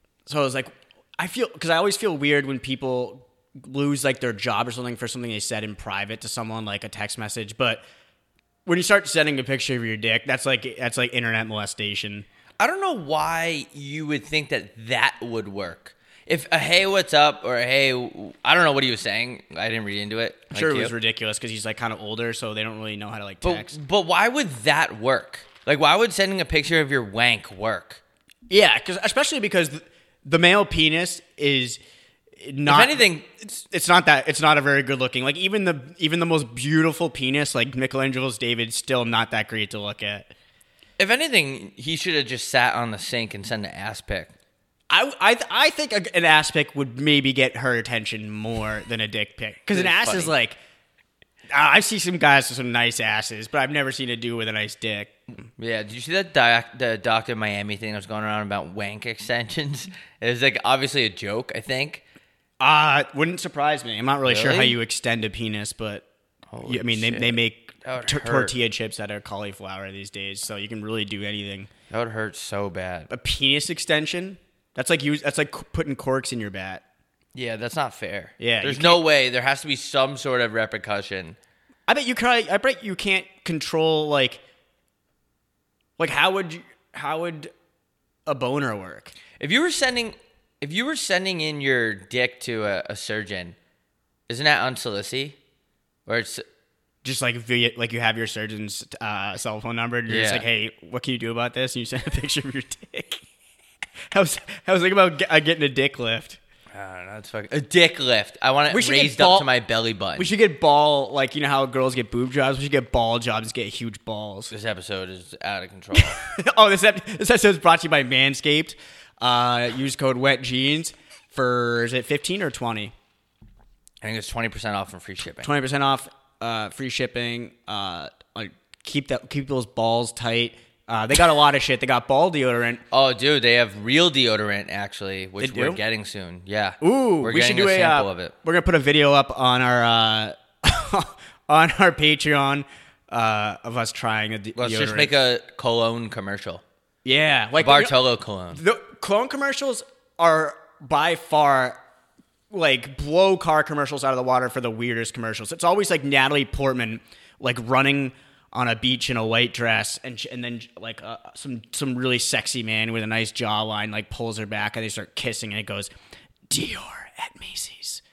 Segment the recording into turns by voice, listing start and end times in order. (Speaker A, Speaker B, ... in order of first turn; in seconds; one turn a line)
Speaker A: 0.3-7.8
Speaker A: 8.7-12.2
Speaker B: 12.6-20.9
Speaker A: 20.5-23.8
Speaker B: 23.4-28.0
Speaker A: 28.5-31.8
Speaker A: 32.4-40.3
Speaker B: 32.6-33.3
Speaker B: 41.0-44.3
Speaker A: 44.9-50.6
Speaker B: 49.7-50.3
Speaker A: 51.5-55.2
Speaker B: 55.6-62.0
Speaker A: 62.6-66.0
Speaker B: 64.2-64.8
Speaker B: 66.5-68.6
Speaker A: 66.6-71.7
Speaker B: 71.9-73.1
Speaker A: 73.1-76.8
Speaker B: 77.3-81.4
Speaker A: 78.4-79.0
Speaker A: 81.9-84.4
Speaker A: 86.0-87.5
Speaker A: 88.3-89.1
Speaker B: 89.4-93.6
Speaker B: 94.3-95.4
Speaker B: 96.1-96.4
Speaker A: 97.0-103.2
Speaker B: 100.1-100.4
Speaker A: 104.1-106.4
Speaker B: 106.7-110.3
Speaker A: 108.7-109.5
Speaker A: 110.2-114.5
Speaker B: 114.5-116.2
Speaker A: 115.9-122.9
Speaker B: 124.0-125.5
Speaker A: 125.4-132.8
Speaker B: 132.9-138.3
Speaker A: 135.4-135.8
Speaker A: 136.8-145.1
Speaker B: 144.6-146.6
Speaker A: 147.1-148.0
Speaker B: 147.6-148.6
Speaker A: 148.5-151.8
Speaker A: 152.5-165.9
Speaker A: 166.5-168.0